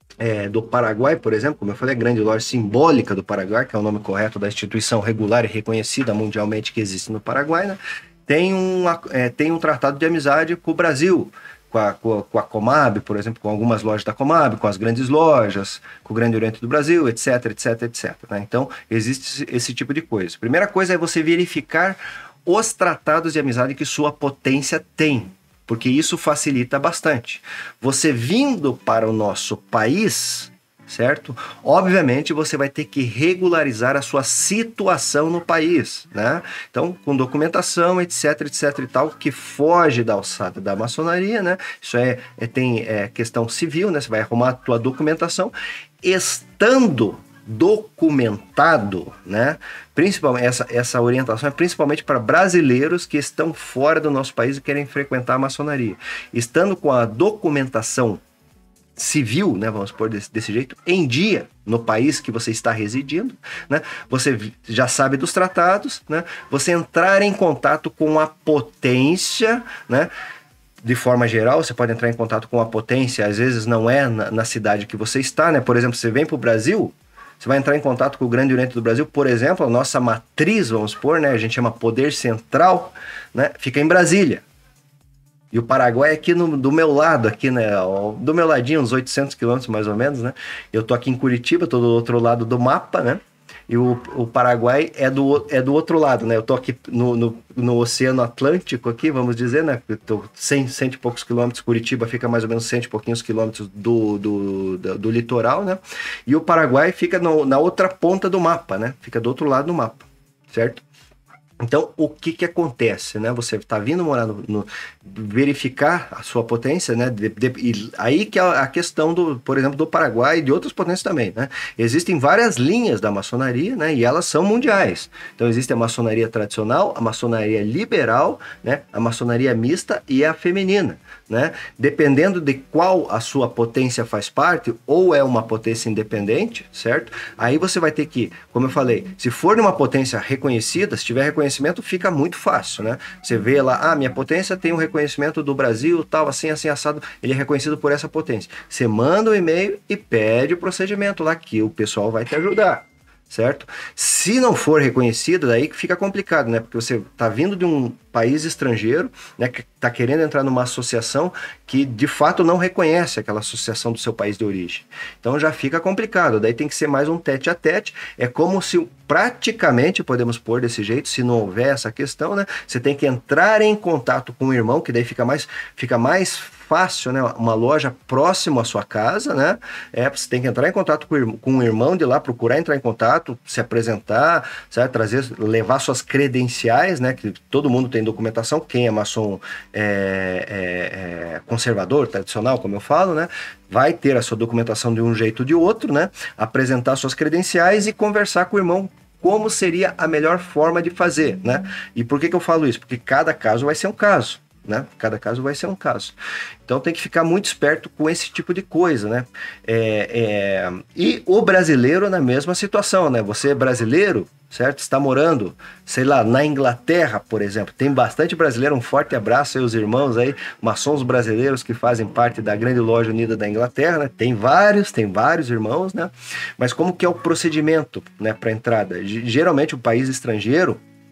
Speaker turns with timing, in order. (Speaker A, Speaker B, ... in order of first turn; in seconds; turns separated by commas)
Speaker A: 0.2-58.2, Speaker A: 59.0-70.1, Speaker A: 70.8-84.4, Speaker A: 85.5-110.8, Speaker A: 111.6-230.8